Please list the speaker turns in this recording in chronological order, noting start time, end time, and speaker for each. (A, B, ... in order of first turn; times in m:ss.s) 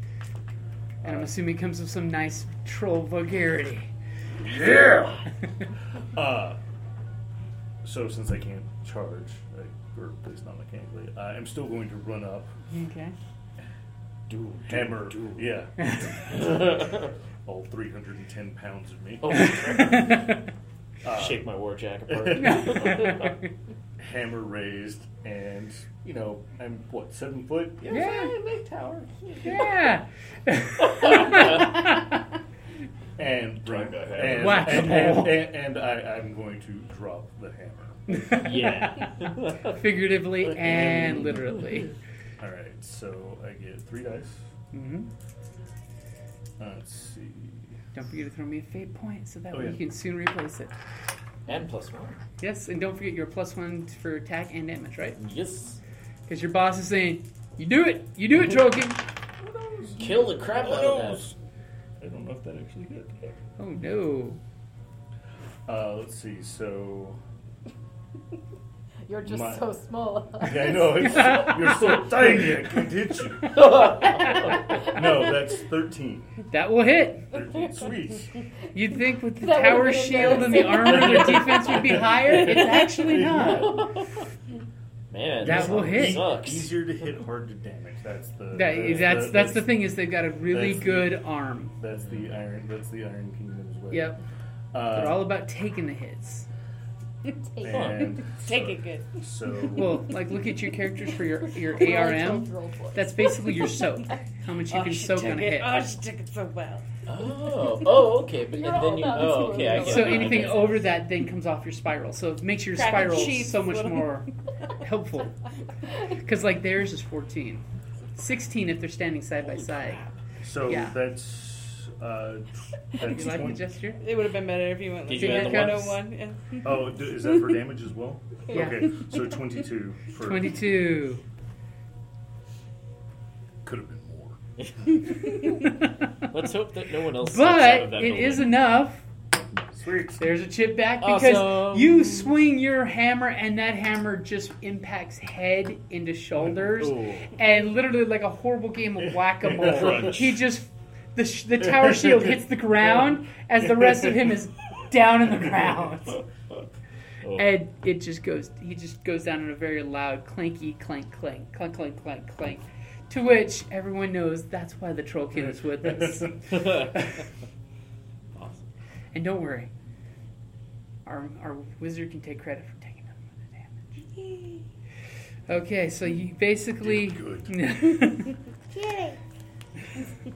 0:01.0-0:01.3 A
0:01.0-0:03.9 B
0:04.4-0:05.2 A
0:06.1-0:06.6 A
0:07.8-0:12.5 A
0:12.7-0:13.1 B
0:14.3-0:15.5 C
0:14.6-0:16.8 A
0:15.8-0:16.1 B
0:16.3-0:17.1 C
0:17.4-0:19.5 A
0:19.2-0:20.4 C
0:19.7-0:20.1 B
0:21.0-0:21.5 A
0:21.1-0:23.3 C
0:22.1-0:23.1 A
0:22.4-0:23.4 B
0:24.0-0:28.3 A
0:27.8-0:29.6 C
0:27.9-0:28.3 B
0:29.4-0:32.1 B
0:30.9-0:31.8 C
0:33.2-0:38.3 A
0:33.6-0:35.2 C
0:34.3-0:35.4 B
0:38.1-0:39.1 B
0:38.3-0:39.8 C
0:39.6-0:41.9 B
0:40.5-0:41.4 A
0:40.7-0:41.1 C
0:42.4-0:44.5 A
0:44.7-0:45.1 B
0:46.6-0:47.8 A
0:47.9-0:50.7 B
0:49.5-0:49.8 A
0:51.5-0:52.2 C
0:52.4-0:55.2 B
0:55.2-0:55.8 C
0:56.3-0:59.0 B
0:59.4-1:01.4 A
1:00.0-1:01.3 C
1:02.0-1:03.2 A
1:03.6-1:04.4 B
1:05.7-1:07.2 A
1:09.0-1:11.8 D
1:09.2-1:09.7 A
1:10.4-1:16.5 A
1:11.1-1:12.0 B
1:13.5-1:14.7 C
1:16.5-1:17.3 B
1:17.3-1:18.3 A
1:18.7-1:23.9 B
1:19.4-1:21.4 D
1:20.1-1:24.0 A
1:25.1-1:27.0 C
1:25.4-1:29.8 A
1:25.4-1:26.3 B
1:28.5-1:31.8 B
1:30.5-1:31.2 A
1:31.8-1:34.1 A
1:33.9-1:34.2 B
1:34.7-1:35.3 A
1:34.9-1:36.5 B
1:37.4-1:38.0 D
1:37.6-1:40.1 A
1:37.7-1:38.1 C
1:38.2-1:39.6 E
1:39.7-1:45.7 B
1:41.7-1:43.4 D
1:44.7-1:47.0 E
1:47.1-1:50.8 C
1:48.5-1:50.6 D
1:49.8-1:55.5 B
1:52.7-1:54.2 E
1:56.0-1:57.6 B
1:58.1-2:00.0 B
2:00.4-2:03.6 A
2:00.6-2:01.0 B
2:03.0-2:04.0 B
2:04.0-2:07.6 E
2:05.0-2:06.0 C
2:05.1-2:06.0 B
2:06.6-2:10.6 A
2:08.5-2:09.1 D
2:08.5-2:08.8 B
2:10.2-2:11.2 B
2:13.6-2:14.4 A
2:14.6-2:15.5 C
2:16.3-2:18.6 C
2:17.2-2:19.0 B
2:19.7-2:20.2 A
2:20.2-2:36.2 B
2:21.0-2:22.3 C
2:26.8-2:27.3 C
2:29.0-2:30.4 A
2:31.6-2:32.4 A
2:33.7-2:34.1 A
2:37.2-2:37.5 C
2:37.3-2:47.0 B
2:46.5-2:47.1 C
2:48.3-2:48.7 C
2:49.1-2:49.7 B
2:51.0-2:54.0 B
2:54.1-2:54.6 E
2:55.5-2:58.4 B
2:56.8-2:57.5 A